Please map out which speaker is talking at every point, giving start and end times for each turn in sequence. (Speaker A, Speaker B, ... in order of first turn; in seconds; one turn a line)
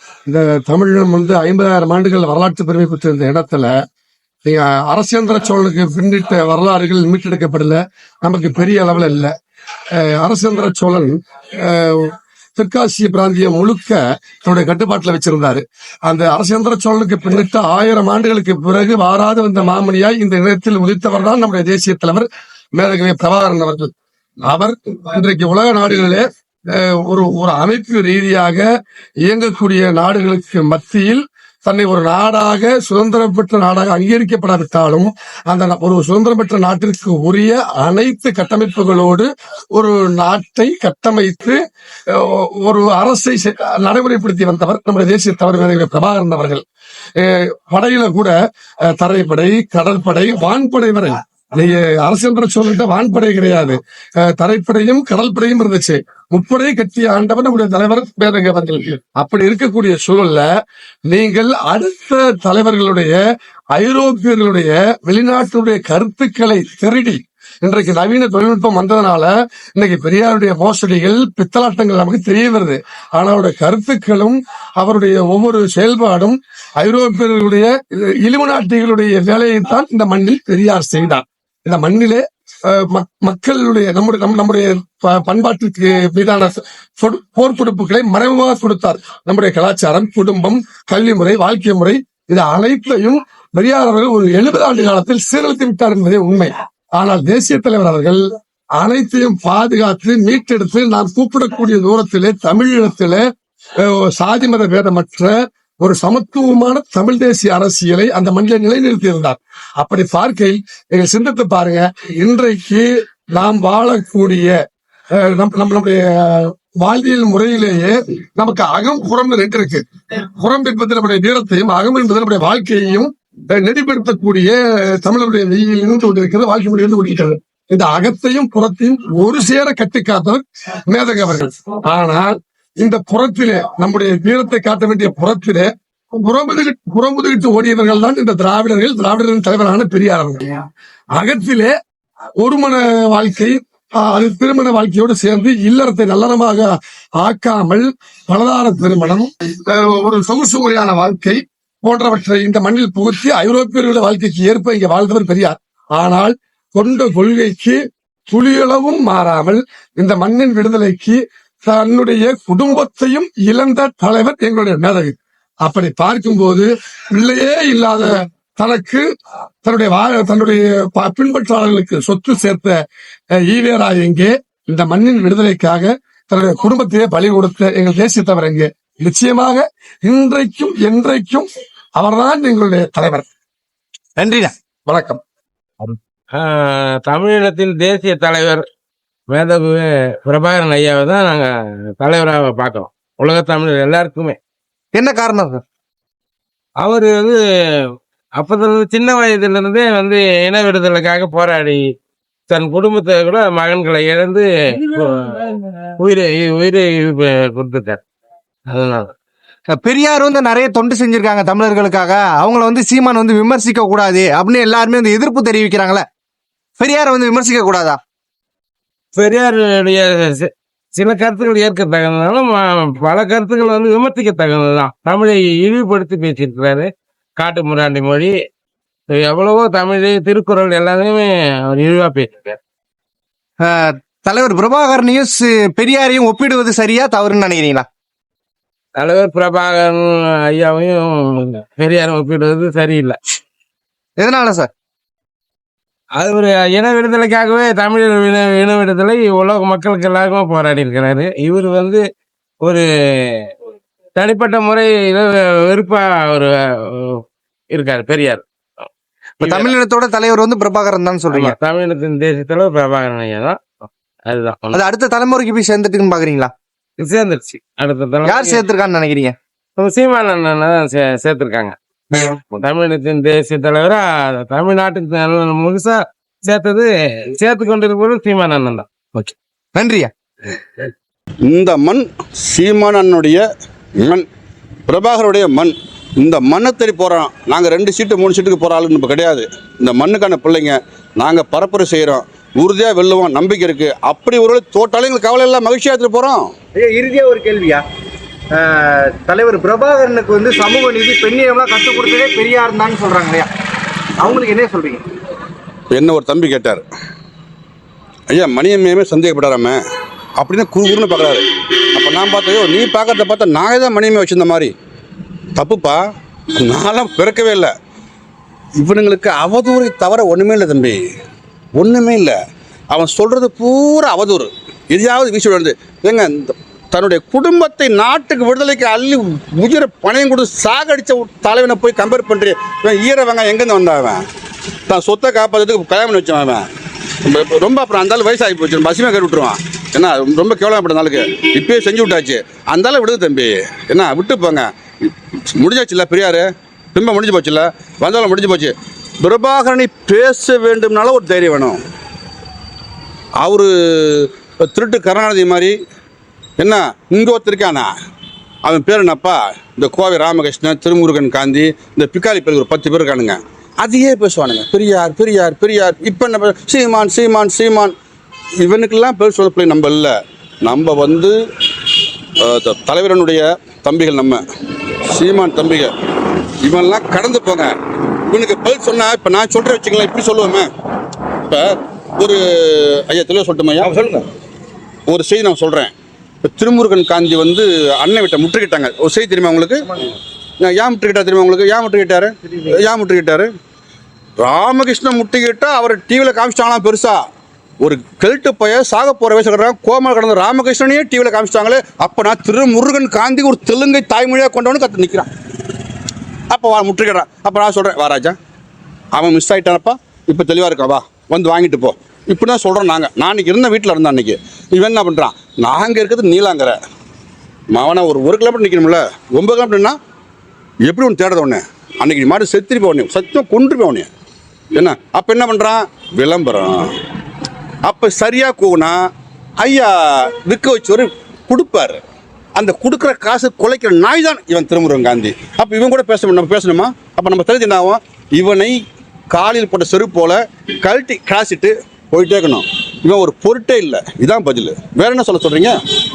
Speaker A: 0.3-3.7
Speaker A: 4.5-9.3
Speaker A: 10.0-23.9
Speaker A: 24.5-28.6
Speaker A: 29.3-41.6
Speaker A: 42.1-46.6
Speaker A: 47.2-48.3
Speaker A: 48.9-60.5
Speaker A: 61.1-63.2
Speaker A: 63.8-98.2
Speaker A: 98.8-103.2
Speaker A: 103.8-114.5
Speaker A: 115.2-140.6
Speaker A: 141.2-141.7
Speaker A: 142.4-169.1
Speaker A: 169.6-172.8
Speaker A: 173.4-183.2
Speaker B: 184.2-184.5
Speaker A: 184.9-185.2
Speaker C: 185.8-188.6
Speaker C: 189.3-194.4
Speaker B: 194.9-195.6
Speaker C: 196.8-201.8
Speaker C: 202.5-208.0
Speaker C: 208.7-209.1
Speaker B: 209.7-216.1
Speaker B: 216.8-218.0
Speaker C: 219.2-228.3
Speaker C: 229.1-232.6
Speaker B: 233.6-237.9
Speaker C: 239.0-243.2
Speaker B: 244.2-244.7
Speaker C: 246.2-252.0
Speaker C: 252.6-253.6
Speaker C: 254.2-258.4
Speaker C: 259.4-259.8
Speaker B: 259.4-261.6
Speaker C: 261.3-264.8
Speaker B: 264.7-266.5
Speaker C: 267.0-268.6
Speaker B: 268.2-269.4
Speaker C: 269.8-278.9
Speaker B: 279.1-280.1
Speaker D: 281.4-283.4
Speaker D: 284.9-296.4
Speaker B: 296.8-297.8
Speaker B: 298.5-303.5
Speaker B: 304.2-305.1
Speaker D: 305.9-306.8
Speaker D: 308.3-309.8
Speaker D: 310.4-314.7
Speaker D: 315.6-316.0
Speaker D: 316.6-317.7
Speaker D: 318.8-321.0
Speaker D: 321.8-322.4
Speaker D: 322.9-334.2
Speaker D: 334.9-336.6
Speaker D: 337.2-344.7
Speaker D: 345.6-351.8
Speaker D: 353.4-355.7
Speaker D: 356.6-357.9
Speaker D: 358.6-367.9
Speaker D: 368.6-371.3
Speaker D: 372.4-374.4
Speaker D: 375.1-375.9
Speaker D: 376.6-377.7
Speaker D: 378.3-380.7
Speaker D: 381.5-384.0
Speaker D: 385.1-389.9
Speaker D: 390.6-393.5
Speaker D: 394.4-397.2
Speaker D: 397.8-405.3
Speaker D: 406.5-408.3
Speaker D: 409.1-416.8
Speaker D: 417.7-419.9
Speaker D: 420.9-424.1
Speaker D: 424.8-427.0
Speaker D: 427.8-429.0
Speaker D: 429.6-432.0
Speaker D: 432.6-438.8
Speaker D: 439.3-445.8